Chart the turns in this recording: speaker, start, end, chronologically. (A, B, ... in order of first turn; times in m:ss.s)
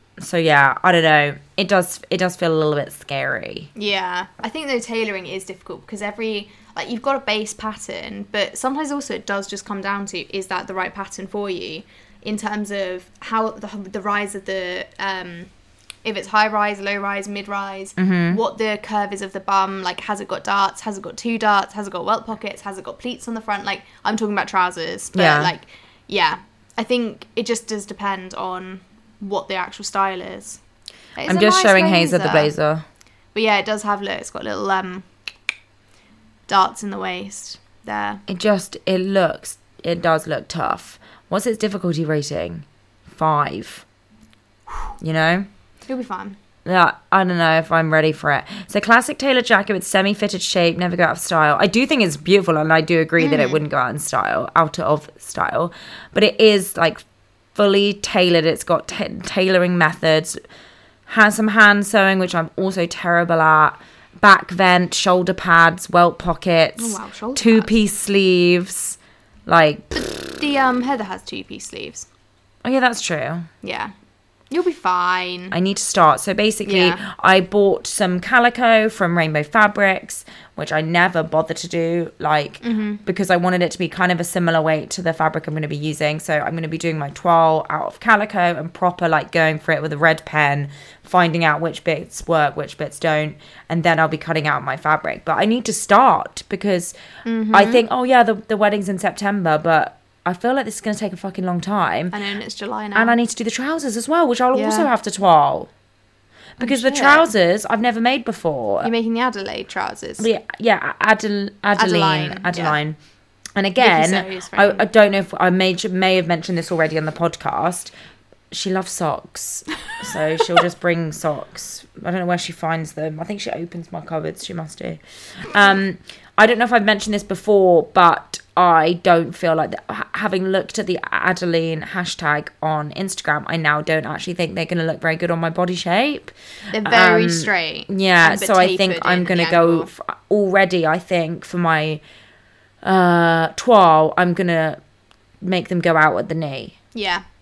0:00.2-0:03.7 A
0:03.7-0:15.5 B
0:16.0-0:30.6 B
0:18.0-0:18.4 A
0:25.1-0:25.5 A
0:31.2-0:32.5 B
0:31.2-0:32.8 A
0:33.3-0:35.1 B
0:36.5-0:38.2 B
0:38.3-0:43.8 A
0:45.0-0:45.5 A
0:45.9-0:46.4 B
0:46.6-0:57.0 A
0:53.2-0:53.6 B
0:57.5-1:00.4 A
1:01.1-1:09.9 A
1:06.8-1:07.7 B
1:09.9-1:12.1 B
1:12.6-1:13.5 A
1:13.6-1:13.9 B
1:14.5-1:15.5 B
1:15.5-1:36.9 A
1:16.6-1:17.0 B
1:22.6-1:23.0 B
1:37.2-1:37.8 B
1:37.5-1:42.1 A
1:42.1-1:43.2 B
1:42.9-1:45.7 A
1:44.5-1:44.9 B
1:46.6-1:48.9 A
1:46.6-1:47.3 B
1:48.8-1:50.3 B
1:50.2-1:53.0 A
1:51.8-1:52.8 B
1:53.6-1:57.9 A
1:53.8-1:54.8 B
1:58.5-2:22.0 A
2:16.7-2:19.9 B
2:22.8-2:24.8 A
2:25.4-2:26.8 A
2:26.9-2:27.2 B